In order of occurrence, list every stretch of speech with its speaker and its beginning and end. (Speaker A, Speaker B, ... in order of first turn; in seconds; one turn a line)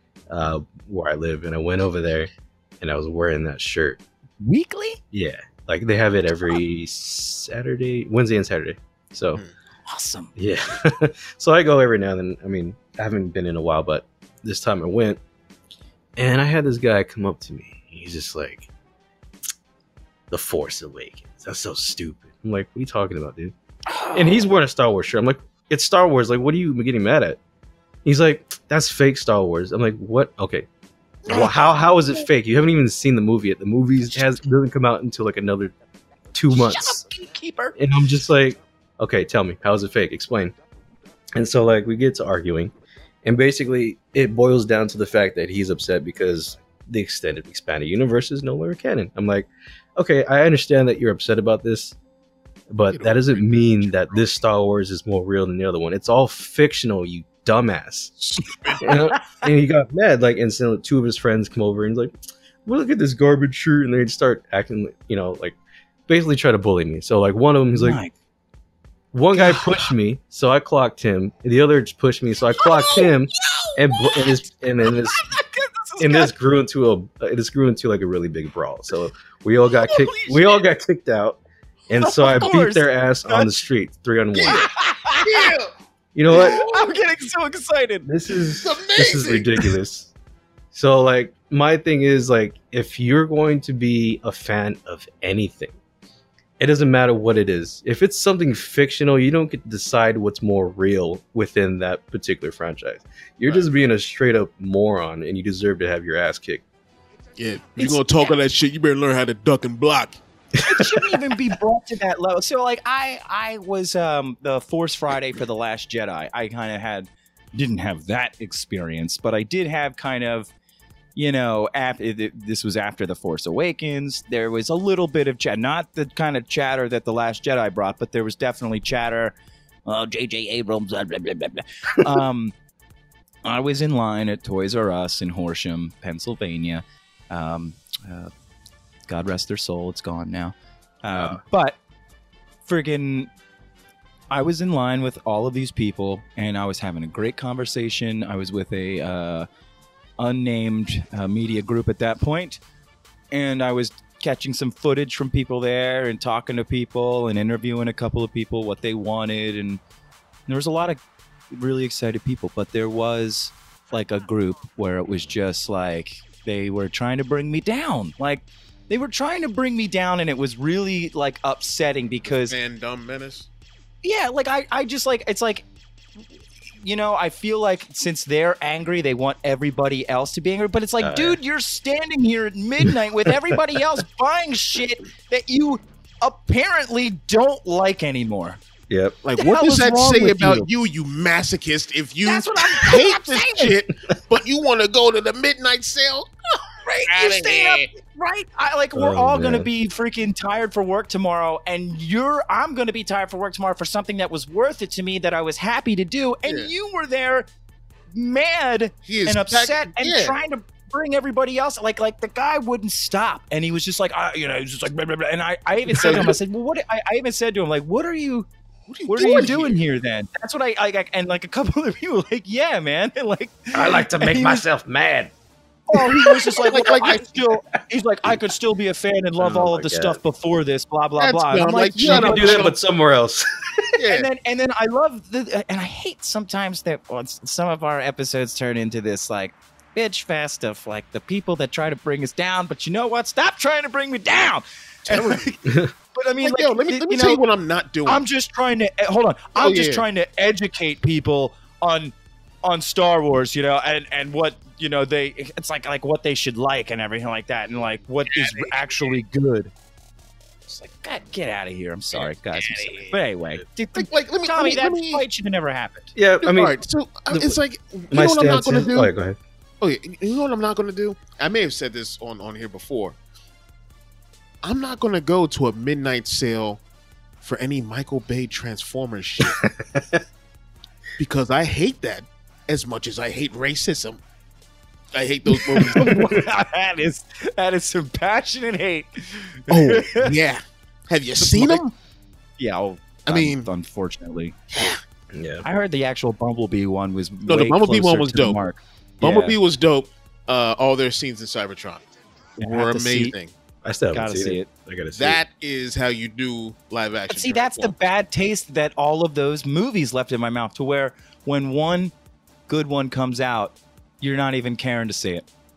Speaker A: 0.3-4.0
Speaker B: 4.4-5.0
Speaker A: 5.1-9.4
Speaker B: 9.9-10.3
Speaker A: 10.3-15.2
Speaker A: 16.2-18.7
Speaker A: 20.3-23.5
Speaker B: 23.9-24.5
Speaker A: 24.1-27.4
Speaker A: 28.0-30.7
Speaker A: 31.3-35.7
Speaker B: 31.3-32.2
Speaker A: 36.3-37.0
Speaker B: 36.5-37.8
Speaker A: 37.8-40.5
Speaker A: 41.3-42.7
Speaker A: 43.2-52.0
Speaker A: 52.7-58.1
Speaker C: 52.9-54.3
Speaker C: 58.2-58.9
Speaker B: 58.7-59.2
Speaker A: 58.8-62.1
Speaker A: 62.6-65.6
Speaker A: 66.1-68.0
Speaker B: 67.7-68.1
Speaker A: 69.1-75.3
Speaker B: 69.3-69.9
Speaker B: 72.6-74.3
Speaker B: 74.8-76.3
Speaker A: 76.0-84.7
Speaker B: 79.7-80.6
Speaker B: 82.0-83.5
Speaker C: 84.3-84.7
Speaker B: 84.4-85.5
Speaker C: 85.2-85.7
Speaker A: 86.1-86.6
Speaker B: 86.3-88.1
Speaker C: 86.4-86.9
Speaker A: 88.0-90.1
Speaker C: 88.6-89.5
Speaker A: 90.7-95.8
Speaker A: 96.6-106.6
Speaker C: 107.4-110.2
Speaker B: 107.8-108.4
Speaker B: 110.6-120.5
Speaker A: 110.7-111.2
Speaker B: 121.2-132.5
Speaker B: 133.4-138.3
Speaker B: 139.1-141.8
Speaker A: 141.1-141.4
Speaker B: 142.7-143.3
Speaker B: 144.3-149.5
Speaker B: 150.2-152.6
Speaker B: 153.3-159.8
Speaker B: 160.5-161.0
Speaker B: 161.5-172.5
Speaker C: 172.3-173.5
Speaker B: 174.0-175.7
Speaker B: 176.8-188.6
Speaker A: 181.0-181.4
Speaker A: 188.9-189.2
Speaker C: 189.2-197.9
Speaker B: 189.4-190.7
Speaker B: 192.2-193.7
Speaker B: 197.0-207.5
Speaker A: 198.9-199.7
Speaker B: 208.1-218.5
Speaker C: 209.1-210.4
Speaker C: 215.9-216.4
Speaker C: 218.9-219.8
Speaker B: 219.1-224.7
Speaker A: 223.7-225.3
Speaker B: 225.9-232.7
Speaker A: 226.3-226.6
Speaker C: 226.6-227.2
Speaker A: 229.4-230.2
Speaker C: 231.2-232.7
Speaker A: 232.0-233.9
Speaker C: 233.9-234.3
Speaker B: 234.1-247.4
Speaker C: 245.1-245.5
Speaker A: 245.6-245.9
Speaker C: 246.4-248.2
Speaker B: 248.1-259.7
Speaker C: 249.6-250.0
Speaker C: 258.3-259.1
Speaker B: 260.7-266.1
Speaker C: 262.1-263.1
Speaker C: 263.9-265.2
Speaker A: 266.1-266.8
Speaker C: 266.4-269.1
Speaker A: 267.3-267.6
Speaker A: 268.1-269.4
Speaker C: 269.8-273.2
Speaker C: 274.6-276.8
Speaker C: 277.4-279.6
Speaker A: 279.4-280.2
Speaker C: 281.2-284.2
Speaker C: 285.1-286.2
Speaker B: 285.9-290.4
Speaker C: 289.7-291.9
Speaker B: 291.3-291.8
Speaker B: 292.6-294.9
Speaker C: 293.3-293.7
Speaker A: 295.3-295.6
Speaker B: 295.6-299.6
Speaker C: 297.5-298.6
Speaker C: 299.2-302.1
Speaker B: 302.6-303.3
Speaker C: 302.6-303.5
Speaker A: 303.8-305.4
Speaker B: 303.9-304.7
Speaker C: 305.1-307.9
Speaker B: 307.3-312.1
Speaker B: 312.7-315.5